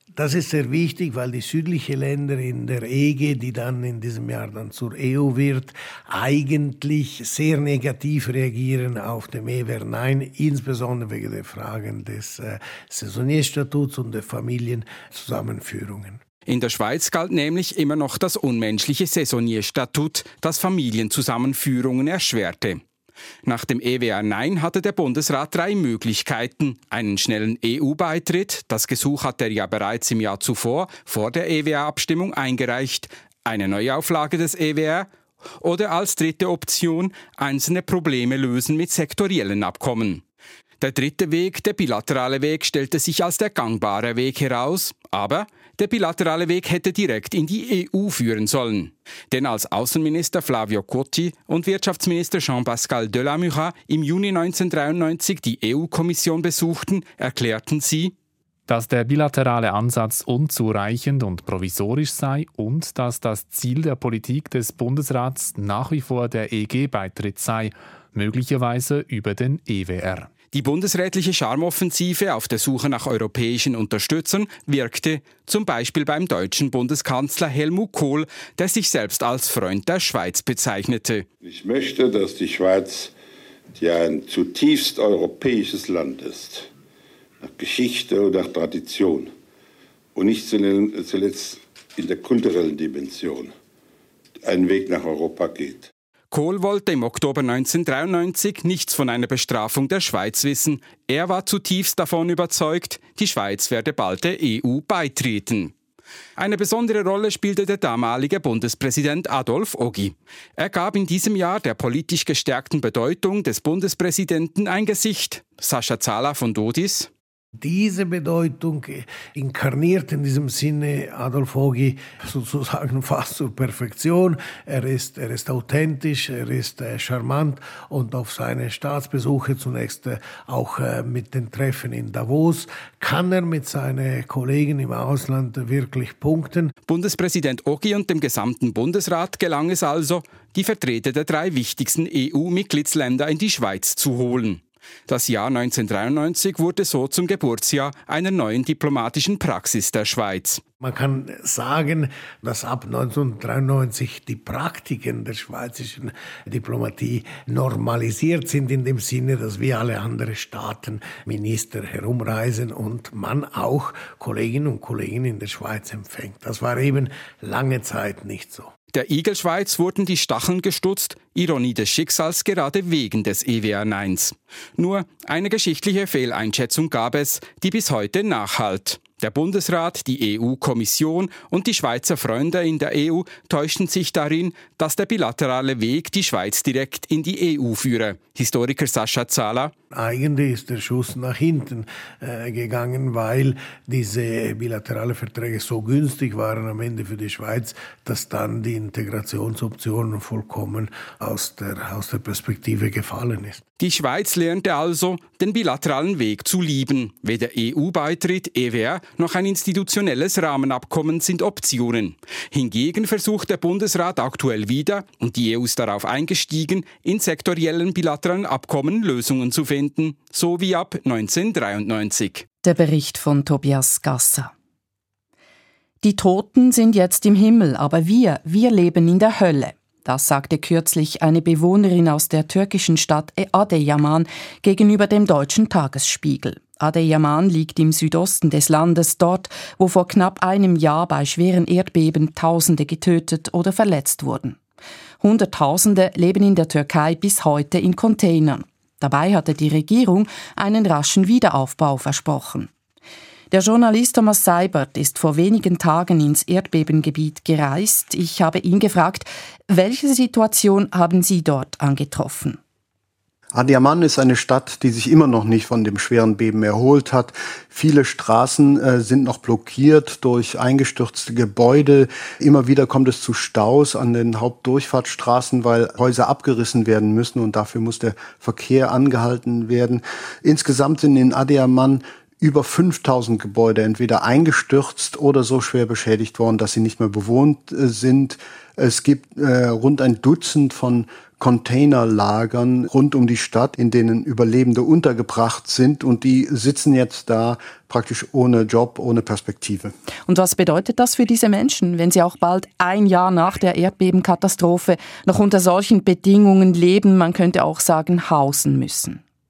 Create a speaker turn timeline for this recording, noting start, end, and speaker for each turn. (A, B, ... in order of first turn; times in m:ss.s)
0:00.2-0:16.2 A
0:16.5-0:22.8 B
0:23.4-0:35.1 B
0:35.6-0:40.2 B
0:40.8-0:58.1 B
0:58.7-1:10.3 C
1:10.5-1:21.2 B
1:21.4-1:23.1 D
1:23.8-1:26.7 D
1:27.4-1:29.3 D
1:30.1-1:33.5 D
1:34.4-1:35.9 D
1:36.3-1:45.7 B
1:46.4-1:57.1 B
1:57.6-2:16.7 A
2:16.9-2:30.6 B
2:30.8-2:48.7 A
2:48.9-3:09.7 B
3:09.9-3:23.6 A
3:23.8-3:42.4 B
3:42.6-3:44.5 E
3:46.0-4:04.6 E
4:05.2-4:12.7 E
4:13.5-4:22.6 E
4:23.5-4:59.9 F
5:00.3-5:09.2 E